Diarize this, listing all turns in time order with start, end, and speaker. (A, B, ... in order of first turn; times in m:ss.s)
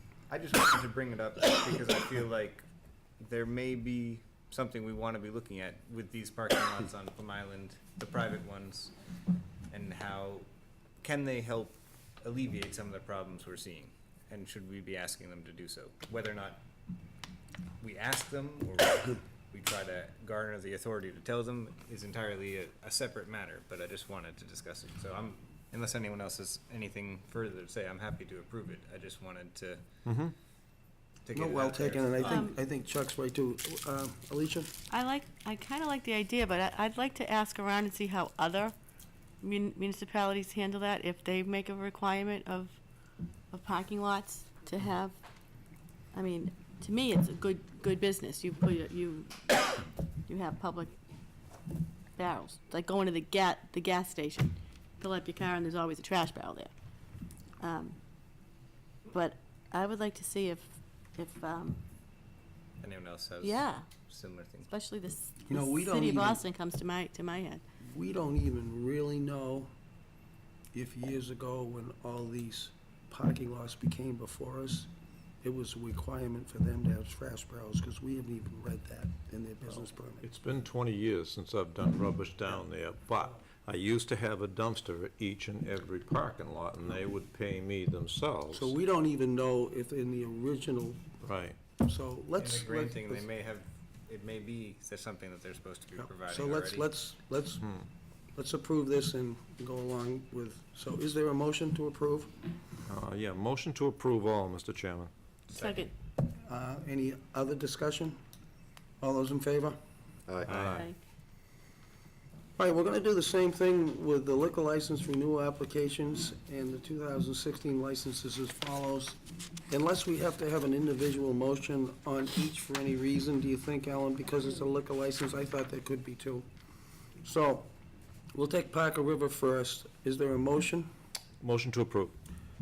0:00.3-0:02.6 A
0:03.2-0:08.9 A
0:09.7-0:10.5 A
0:11.0-0:16.6 A
0:17.8-0:29.8 A
0:30.0-0:30.3 B
0:31.2-0:32.4 A
0:31.3-0:34.7 C
0:32.3-0:32.6 D
0:34.9-0:38.7 D
0:39.4-0:42.8 D
0:43.5-0:45.2 D
0:46.1-0:50.9 D
0:52.2-0:56.7 D
0:57.6-0:58.0 D
0:59.1-1:01.8 D
1:02.8-1:04.7 A
1:03.4-1:03.8 D
1:04.7-1:07.6 D
1:05.5-1:06.4 C
1:07.8-1:09.7 C
1:10.7-1:14.9 C
1:15.4-1:20.3 C
1:20.2-1:28.7 B
1:28.5-1:31.1 C
1:31.2-1:31.6 B
1:31.8-1:33.3 C
1:32.4-1:36.9 A
1:36.0-1:37.7 C
1:38.4-1:42.3 C
1:42.9-1:45.1 B
1:45.5-1:45.9 A
1:45.6-1:45.9 D
1:46.4-1:48.2 C
1:49.0-1:49.8 C
1:50.4-1:50.9 B
1:50.6-1:51.0 D
1:52.6-1:59.2 C
1:59.7-2:06.5 C
2:07.2-2:07.7 C
2:08.3-2:10.9 C
2:11.4-2:12.1 B